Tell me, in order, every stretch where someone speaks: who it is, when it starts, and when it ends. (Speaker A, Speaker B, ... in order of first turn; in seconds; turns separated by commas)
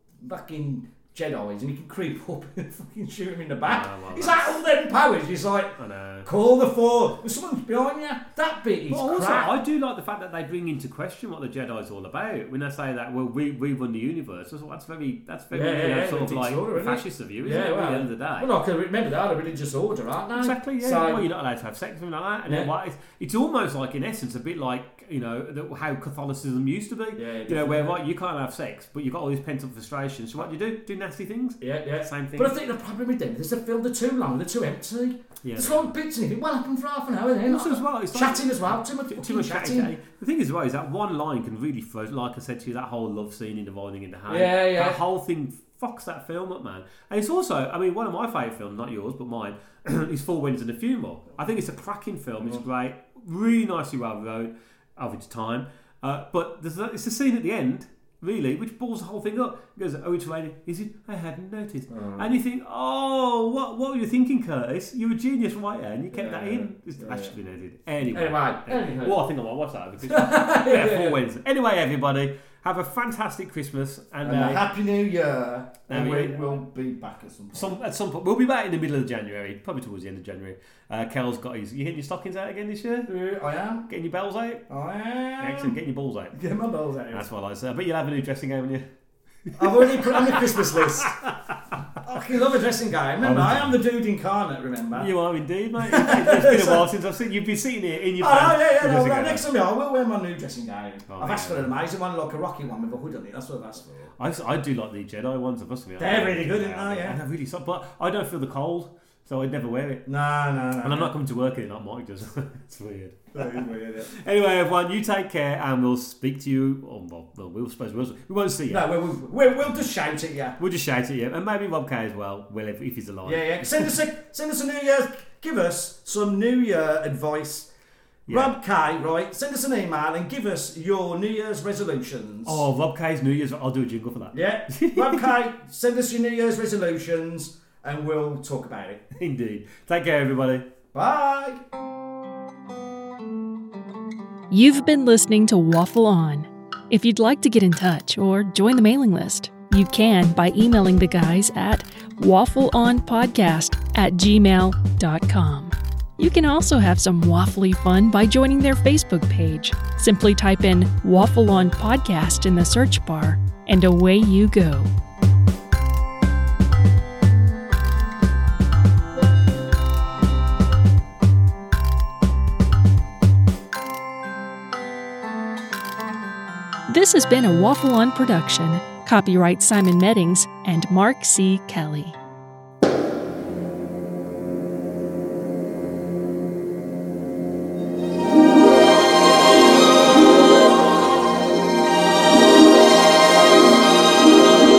Speaker A: 0.2-9.6, Speaker B: 3.6-4.6, Speaker B: 5.8-6.3, Speaker B: 8.9-18.5, Speaker A: 15.5-21.2, Speaker B: 20.4-32.5, Speaker A: 27.2-28.0, Speaker A: 31.6-39.9, Speaker B: 35.4-35.9, Speaker B: 37.5-74.7, Speaker A: 44.3-45.0, Speaker A: 61.9-62.3, Speaker A: 66.1-67.3, Speaker A: 68.1-69.2, Speaker A: 70.1-71.2, Speaker A: 74.2-77.7, Speaker B: 75.9-76.5, Speaker B: 77.5-83.1, Speaker A: 83.1-83.9, Speaker B: 83.9-84.6, Speaker A: 84.7-85.7, Speaker B: 85.4-86.4, Speaker A: 86.3-87.2, Speaker B: 87.1-88.8, Speaker B: 89.5-91.3, Speaker A: 89.5-91.1, Speaker A: 92.0-95.1, Speaker B: 93.2-93.8, Speaker B: 94.9-99.4, Speaker A: 95.9-96.8, Speaker A: 98.2-104.1, Speaker B: 101.1-101.7, Speaker B: 104.2-110.0, Speaker A: 106.0-107.2, Speaker A: 110.0-111.1, Speaker B: 110.8-118.9, Speaker A: 113.3-114.1, Speaker A: 118.7-120.6, Speaker B: 120.6-124.0, Speaker A: 123.2-127.7, Speaker B: 128.2-128.5, Speaker A: 128.3-132.6, Speaker B: 132.4-135.3, Speaker A: 134.3-139.0, Speaker B: 139.2-140.7, Speaker A: 140.9-141.6, Speaker C: 144.5-164.9, Speaker C: 176.9-182.1